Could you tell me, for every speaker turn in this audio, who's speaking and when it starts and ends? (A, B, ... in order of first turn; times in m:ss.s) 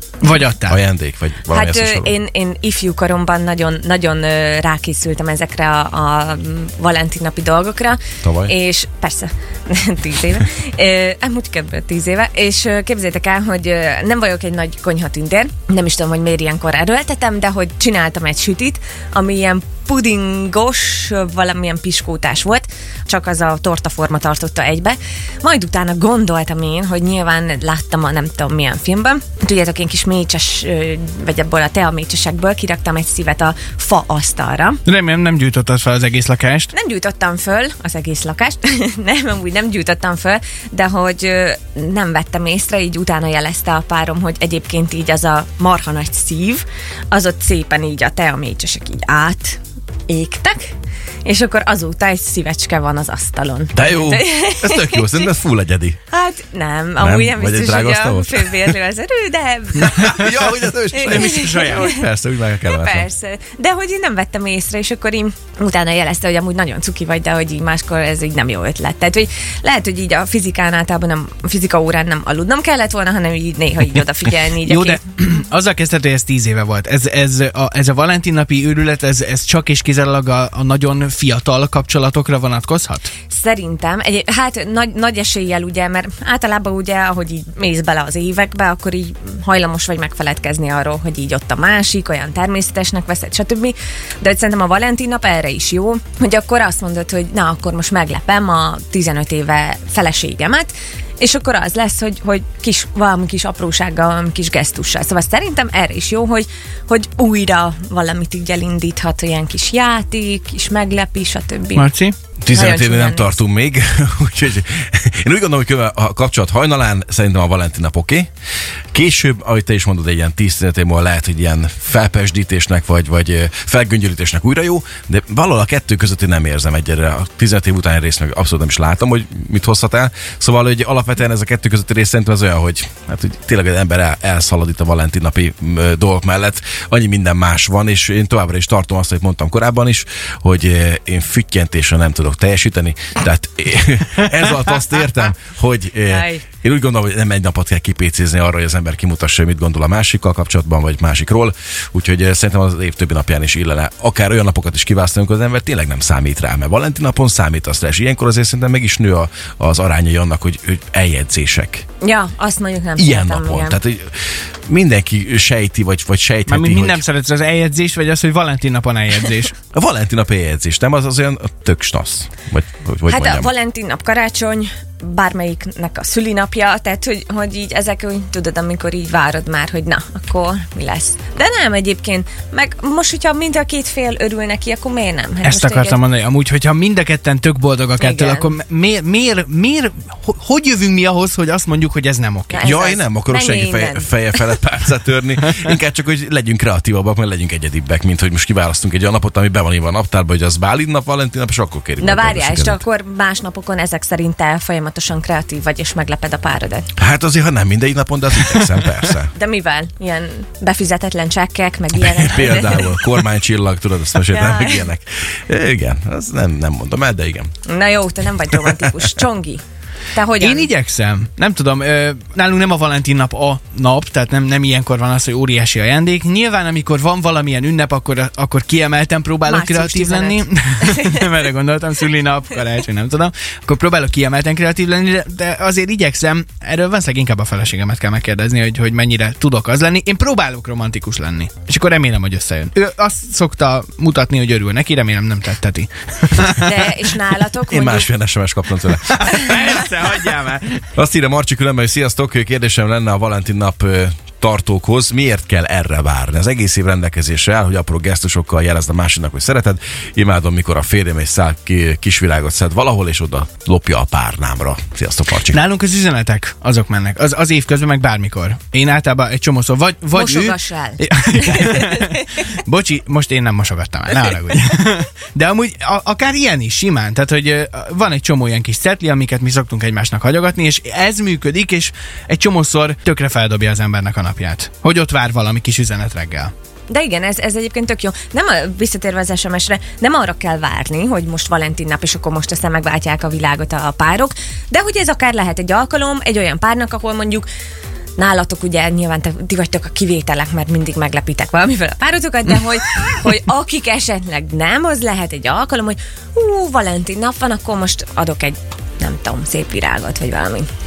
0:00.2-0:00.8 A
0:00.7-0:02.1 B
0:01.5-0:34.8 C
0:08.2-0:08.5 B
0:34.8-0:36.7 A
0:36.7-0:50.7 C
0:51.2-0:55.3 C
0:53.7-0:56.0 B
0:56.1-1:00.3 C
0:57.0-0:58.8 B
0:59.8-1:03.1 B
1:00.9-1:02.1 C
1:01.3-1:01.8 A
1:02.6-1:15.0 C
1:14.6-1:23.1 A
1:23.3-1:51.9 C
1:51.8-1:52.2 A
1:52.4-1:58.3 B
1:52.5-1:53.4 C
1:58.9-2:41.8 B
2:26.1-2:26.4 C
2:42.0-2:43.8 C
2:43.0-2:47.0 B
2:46.5-2:49.6 A
2:49.7-2:53.5 B
2:53.1-3:06.0 C
3:05.4-3:12.7 A
3:08.0-3:08.5 C
3:12.5-3:14.4 C
3:12.6-3:22.8 B
3:22.0-3:26.9 C
3:27.0-3:29.3 B
3:29.3-3:33.0 C
3:32.0-3:37.5 B
3:34.3-3:34.9 C
3:37.7-3:39.6 C
3:40.1-3:40.7 C
3:40.4-4:06.9 A
3:49.5-3:51.3 C
4:06.5-4:08.1 C
4:07.7-4:09.7 B
4:08.9-4:10.9 A
4:11.0-4:25.6 B
4:25.4-4:46.5 A
4:30.1-4:32.4 C
4:46.9-4:57.5 C
4:58.2-5:10.7 C